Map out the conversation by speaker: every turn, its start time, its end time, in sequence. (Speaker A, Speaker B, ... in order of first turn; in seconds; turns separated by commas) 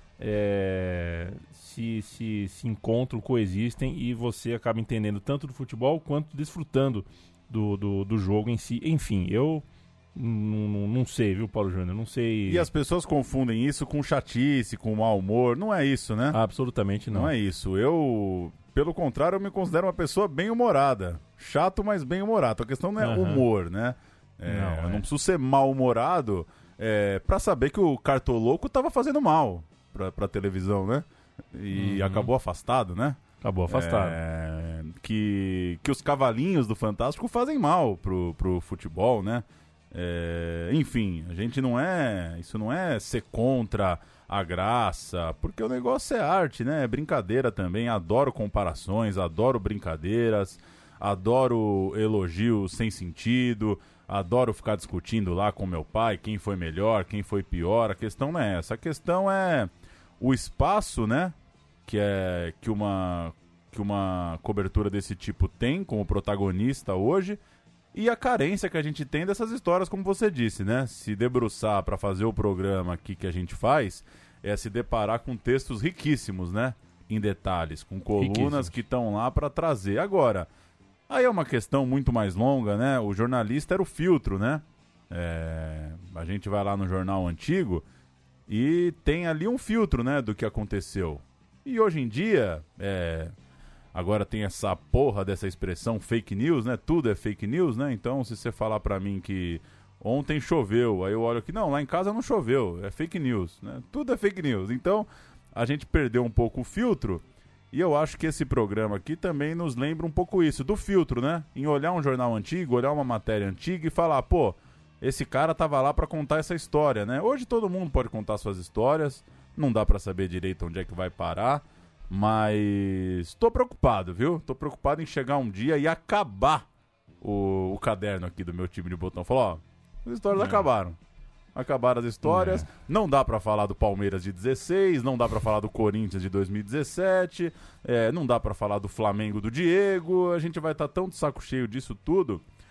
Speaker A: 0.2-12.7, Speaker B: 12.4-16.4, Speaker A: 16.3-17.3, Speaker B: 17.1-67.4, Speaker A: 23.0-23.4, Speaker A: 24.4-25.0, Speaker A: 31.7-32.3, Speaker A: 33.4-34.2, Speaker B: 67.9-80.5, Speaker A: 78.2-78.8, Speaker B: 81.1-87.8, Speaker B: 88.5-93.3, Speaker B: 93.9-126.7, Speaker B: 127.2-131.0, Speaker A: 130.3-130.6, Speaker B: 131.5-142.4, Speaker A: 132.2-132.7